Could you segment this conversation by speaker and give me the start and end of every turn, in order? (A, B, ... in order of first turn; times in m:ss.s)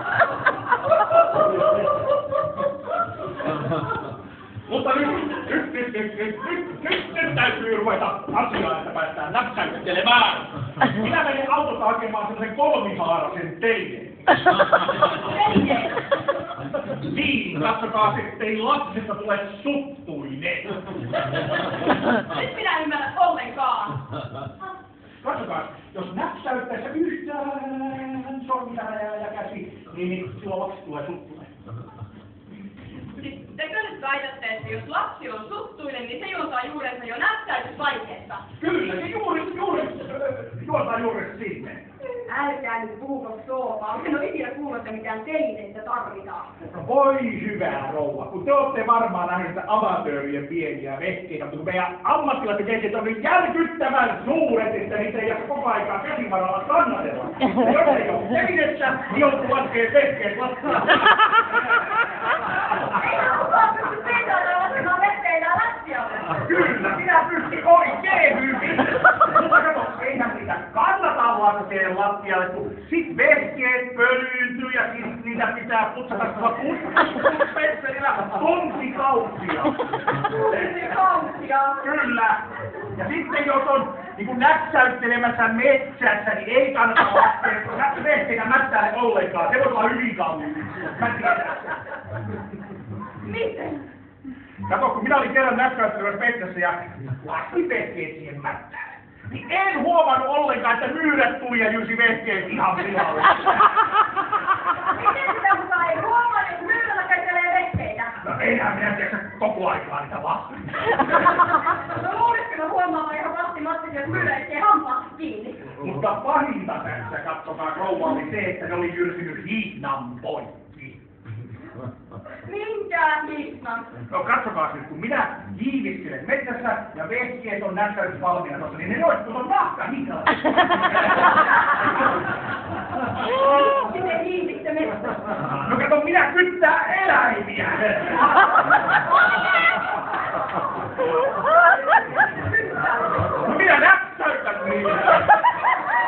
0:04.7-0:14.2 A
0:15.1-0:16.0 B
0:16.9-0:20.8 A
0:21.9-0:24.0 C
0:22.4-0:23.9 B
0:25.2-0:31.5 A
0:33.3-0:38.2 C
0:33.4-0:33.7 B
0:34.7-0:35.2 B
0:35.9-0:38.4 B
0:38.6-0:41.8 A
0:42.2-0:46.5 B
0:46.6-1:01.1 A
1:02.8-1:06.3 B
1:06.3-1:19.8 A
1:20.2-1:21.8 B
1:21.8-1:31.8 A
1:33.2-1:33.8 B
1:34.7-1:43.7 A
1:44.9-1:48.2 B
1:48.2-1:51.0 A
1:51.5-1:55.6 B
1:55.7-2:01.0 A
2:02.4-2:03.9 B
2:04.1-2:11.4 A
2:13.2-2:15.3 B
2:15.4-2:18.5 A
2:22.4-2:23.3 B
2:23.2-2:25.3 A